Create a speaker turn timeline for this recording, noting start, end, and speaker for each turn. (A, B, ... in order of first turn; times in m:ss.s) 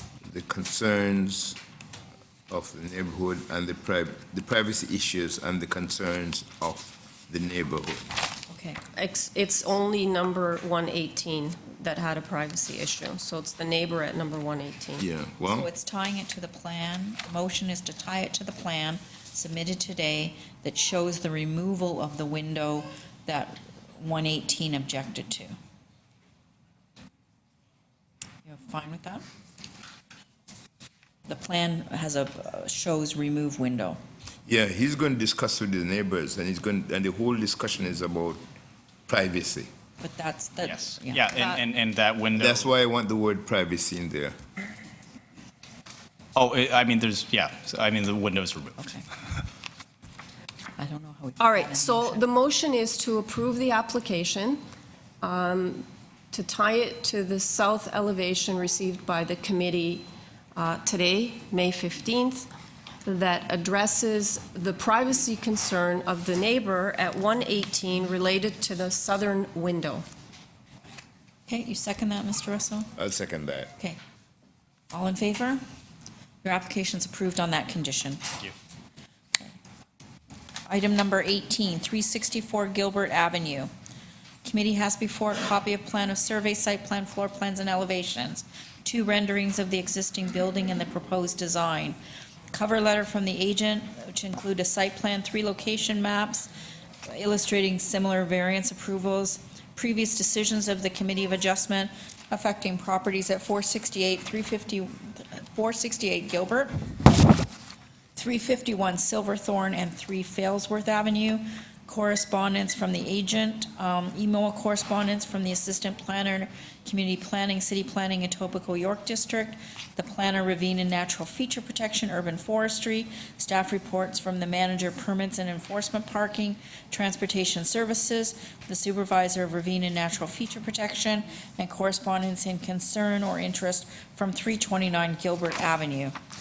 0:00.2-0:01.6 A
0:02.5-0:08.1 A
0:08.5-0:08.8 B
0:08.9-0:15.0 C
0:15.0-0:15.7 A
0:15.4-0:25.5 B
0:28.4-0:29.2 B
0:31.3-0:34.0 B
0:34.5-0:38.4 A
0:39.1-0:39.7 A
0:40.0-0:41.4 B
0:40.6-0:42.7 D
0:42.3-0:44.4 A
0:46.3-0:48.9 D
0:50.8-0:52.2 B
0:51.4-0:54.6 C
0:55.2-1:02.5 C
1:03.0-1:10.0 C
1:11.5-1:12.9 B
1:13.0-1:13.7 A
1:14.9-1:15.6 B
1:16.4-1:18.2 B
1:20.6-1:23.7 B
1:24.4-1:32.0 B
1:32.5-1:36.5 B
1:37.0-1:46.7 B
1:48.2-2:16.1 B